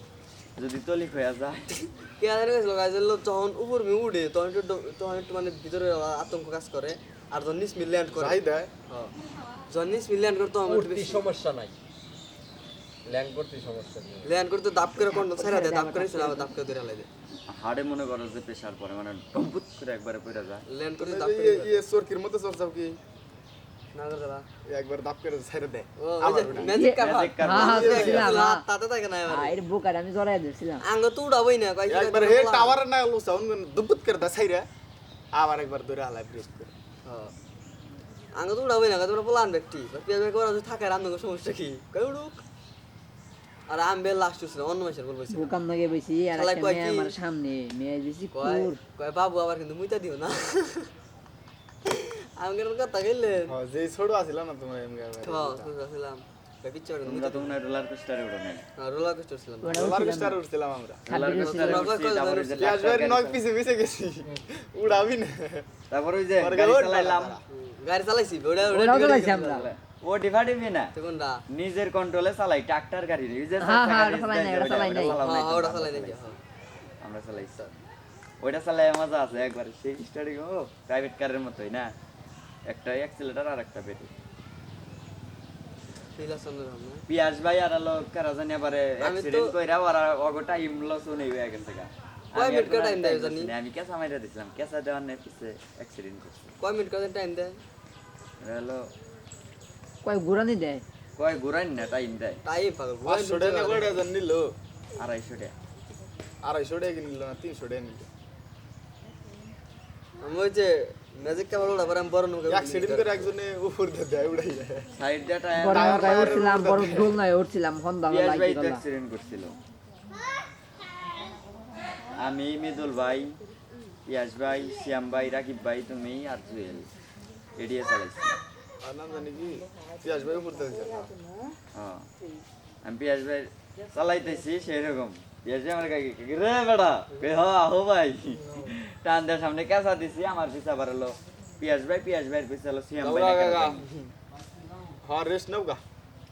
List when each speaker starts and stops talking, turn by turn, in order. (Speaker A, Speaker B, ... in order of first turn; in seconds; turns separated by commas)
Speaker A: 0.6-1.8, Speaker B: 2.2-9.1, Speaker C: 8.1-8.7, Speaker B: 9.7-11.3, Speaker D: 10.6-11.7, Speaker D: 13.0-14.3, Speaker B: 14.2-17.1, Speaker E: 15.1-16.5, Speaker A: 17.5-20.6, Speaker B: 20.7-21.8, Speaker C: 21.0-23.0, Speaker B: 23.9-24.4, Speaker C: 24.6-26.7, Speaker B: 26.0-29.6, Speaker E: 26.7-28.6, Speaker A: 26.9-28.2, Speaker C: 27.6-28.3, Speaker E: 29.2-30.8, Speaker B: 30.8-32.8, Speaker C: 31.9-34.7, Speaker C: 35.3-36.7, Speaker B: 37.0-37.3, Speaker B: 38.3-42.4, Speaker B: 43.7-45.6, Speaker E: 45.3-48.8, Speaker B: 46.3-47.1, Speaker B: 48.3-50.9, Speaker B: 51.9-53.5, Speaker C: 53.5-55.7, Speaker B: 55.2-57.6, Speaker A: 57.0-58.6, Speaker B: 58.8-59.9, Speaker E: 59.6-60.4, Speaker C: 59.7-61.0, Speaker E: 61.1-61.9, Speaker A: 61.1-63.4, Speaker B: 61.4-62.7, Speaker C: 62.6-65.7, Speaker A: 65.9-67.4, Speaker C: 66.4-67.4, Speaker B: 67.5-69.7, Speaker E: 68.7-69.7, Speaker A: 69.5-70.9, Speaker B: 70.9-71.4, Speaker A: 71.5-76.3, Speaker E: 73.6-75.2, Speaker B: 75.0-76.4, Speaker A: 77.0-77.7, Speaker A: 78.4-81.9, Speaker A: 82.7-84.1, Speaker B: 86.2-87.0, Speaker A: 87.1-96.5, Speaker B: 89.0-89.5, Speaker B: 92.3-93.5, Speaker B: 96.6-97.6, Speaker A: 98.4-98.8, Speaker E: 100.0-100.8, Speaker A: 101.2-102.4, Speaker B: 102.4-104.0, Speaker C: 103.0-104.5, Speaker A: 105.0-105.5, Speaker C: 106.4-108.1, Speaker B: 110.2-113.3, Speaker C: 112.5-114.8, Speaker A: 115.0-116.5, Speaker E: 115.6-118.8, Speaker C: 115.7-117.2, Speaker A: 118.1-119.6, Speaker A: 122.2-123.4, Speaker A: 124.1-126.9, Speaker A: 127.5-128.4, Speaker C: 128.8-131.1, Speaker A: 131.7-132.1, Speaker A: 132.8-143.8, Speaker C: 143.0-143.8, Speaker C: 145.0-145.8